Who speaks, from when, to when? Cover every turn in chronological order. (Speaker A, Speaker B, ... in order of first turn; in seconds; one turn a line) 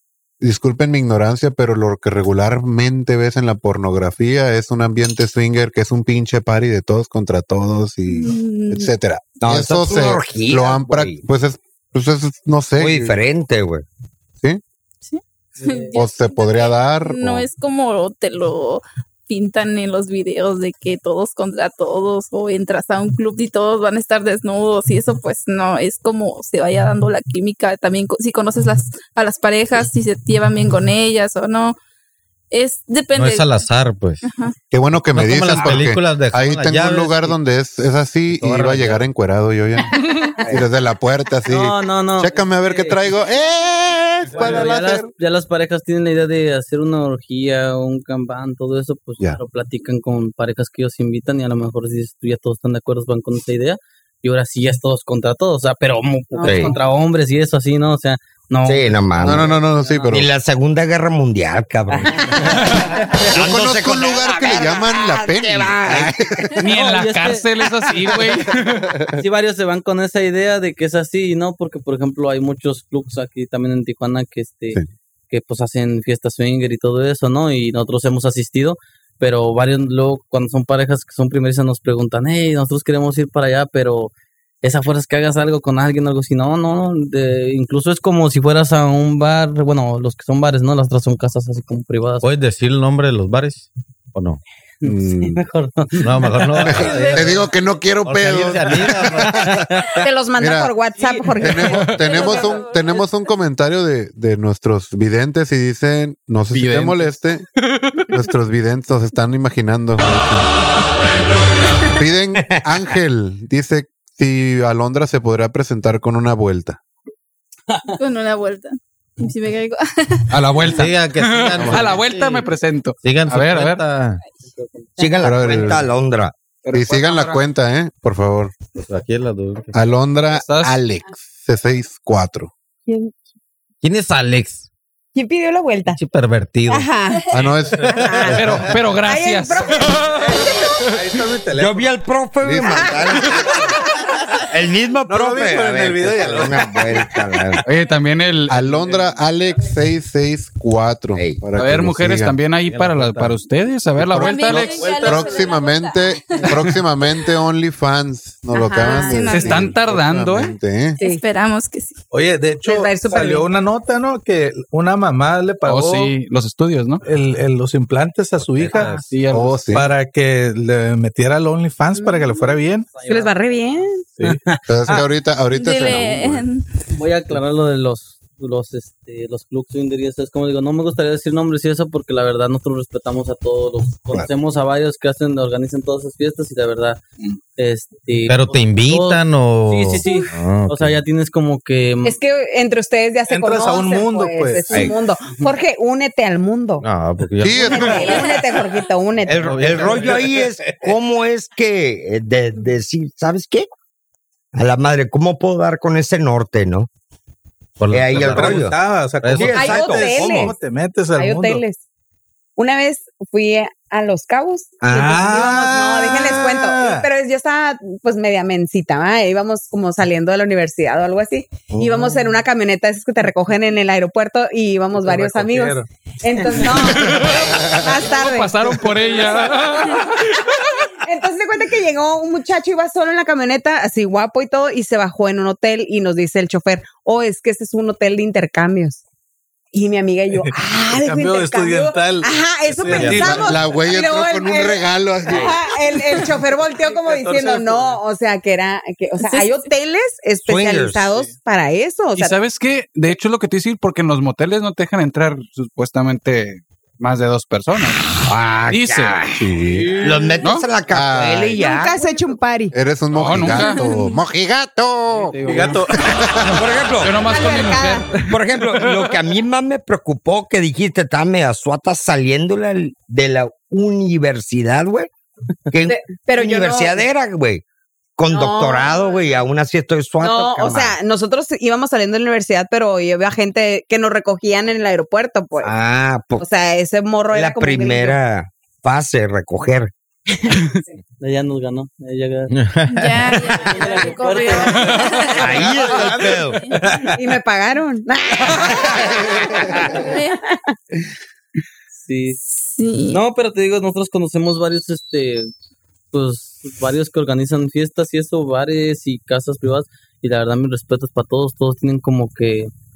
Speaker A: 0.4-13.2
Speaker B: 8.1-8.9
Speaker C: 9.4-11.2
Speaker C: 12.8-13.9
Speaker B: 15.0-31.8
Speaker D: 15.6-15.9
Speaker A: 15.9-17.5
Speaker B: 32.5-33.6
Speaker E: 33.1-34.2
Speaker B: 34.2-34.5
Speaker A: 34.7-45.1
Speaker E: 35.1-37.4
Speaker E: 38.3-39.0
Speaker D: 41.5-43.0
Speaker F: 44.3-44.7
Speaker D: 44.4-60.1
Speaker G: 56.3-56.8
Speaker C: 56.4-56.8
Speaker C: 58.6-59.6
Speaker A: 59.2-60.3
Speaker C: 60.1-62.6
Speaker H: 62.6-62.9
Speaker C: 63.3-66.5
Speaker A: 63.3-66.5
Speaker H: 66.6-69.0
Speaker D: 66.7-67.5
Speaker D: 69.2-92.3
Speaker E: 92.2-94.4
Speaker D: 94.8-97.3
Speaker A: 94.8-95.4
Speaker E: 96.0-97.5
Speaker A: 96.6-99.7
Speaker E: 98.0-99.7
Speaker G: 100.0-101.8
Speaker A: 100.4-100.7
Speaker A: 101.4-107.5
Speaker H: 101.6-102.0
Speaker B: 101.9-103.1
Speaker H: 106.5-108.1
Speaker A: 108.1-110.5
Speaker A: 111.9-116.8
Speaker C: 112.4-112.7
Speaker D: 117.7-118.0
Speaker B: 118.0-120.4
Speaker H: 120.3-123.8
Speaker E: 120.7-122.5
Speaker A: 121.6-122.0
Speaker E: 123.0-124.2
Speaker D: 124.5-125.0
Speaker C: 125.0-126.3
Speaker A: 125.2-125.9
Speaker H: 126.6-127.4
Speaker A: 126.7-128.6
Speaker E: 128.8-129.8
Speaker A: 129.7-132.5
Speaker H: 130.3-130.8
Speaker G: 132.9-133.1
Speaker E: 133.8-134.7
Speaker G: 135.1-136.0
Speaker E: 135.9-136.9
Speaker G: 136.7-137.2
Speaker A: 137.3-138.8
Speaker G: 138.0-140.7
Speaker H: 138.3-140.9
Speaker F: 140.1-141.9
Speaker C: 141.6-143.3
Speaker A: 142.4-143.2
Speaker C: 144.5-147.6
Speaker F: 145.1-147.0
Speaker H: 147.7-148.6
Speaker A: 148.5-152.4
Speaker C: 151.2-151.4
Speaker H: 151.6-154.9
Speaker E: 152.7-153.4
Speaker A: 154.0-161.0
Speaker B: 154.2-156.6
Speaker F: 154.6-155.4
Speaker G: 158.5-159.3
Speaker B: 158.7-159.7
Speaker H: 159.3-160.6
Speaker B: 161.0-162.0
Speaker F: 162.1-166.1
Speaker G: 162.6-163.5
Speaker H: 165.7-167.0
Speaker F: 167.0-169.0
Speaker E: 168.4-169.1
Speaker H: 169.0-169.7
Speaker A: 169.3-169.9
Speaker F: 169.7-172.9
Speaker G: 171.9-174.1
Speaker D: 172.9-175.0
Speaker F: 174.2-175.0
Speaker A: 174.7-176.4
Speaker B: 175.5-176.7
Speaker D: 176.9-187.0
Speaker D: 187.6-192.2
Speaker E: 188.3-191.0
Speaker G: 192.1-196.9
Speaker F: 193.3-194.9
Speaker E: 196.8-198.0
Speaker A: 197.4-198.3
Speaker G: 197.4-200.1
Speaker C: 199.3-203.7
Speaker E: 199.4-200.2
Speaker F: 199.8-200.9
Speaker C: 204.5-206.9
Speaker E: 207.8-210.3
Speaker C: 207.9-208.8
Speaker F: 208.2-211.6
Speaker C: 209.4-210.4
Speaker G: 209.5-210.6
Speaker G: 211.2-211.8
Speaker G: 212.6-230.3
Speaker C: 214.8-215.2
Speaker F: 214.9-217.1
Speaker F: 224.9-225.9
Speaker H: 226.7-230.5
Speaker G: 230.9-239.0
Speaker G: 239.7-252.3
Speaker F: 240.4-243.8
Speaker E: 242.9-243.5
Speaker A: 243.4-245.6
Speaker F: 246.5-248.0
Speaker B: 249.2-249.7
Speaker C: 250.4-251.2
Speaker H: 252.2-259.2
Speaker C: 258.2-262.0
Speaker A: 259.4-260.1
Speaker F: 259.7-260.4
Speaker A: 260.9-261.6
Speaker G: 261.6-262.7
Speaker A: 262.7-265.4
Speaker H: 263.1-263.8
Speaker B: 263.4-264.2
Speaker D: 265.4-265.8
Speaker F: 265.4-266.4
Speaker A: 266.0-266.6
Speaker C: 266.4-267.3
Speaker H: 267.0-269.1
Speaker G: 267.1-268.1
Speaker C: 268.2-275.1
Speaker C: 275.7-277.6
Speaker G: 275.9-277.0
Speaker C: 278.2-281.0
Speaker G: 278.3-279.3
Speaker G: 280.2-285.7
Speaker C: 285.6-286.4
Speaker G: 286.4-288.2
Speaker C: 287.3-289.9
Speaker G: 290.3-291.0
Speaker D: 291.2-292.5
Speaker E: 292.5-293.6
Speaker B: 292.9-296.8
Speaker D: 293.6-295.4
Speaker G: 293.8-294.9
Speaker C: 295.4-296.6
Speaker G: 297.1-300.7
Speaker B: 299.8-300.4
Speaker D: 302.0-302.4
Speaker B: 302.5-303.2
Speaker D: 303.1-305.5
Speaker D: 306.1-312.7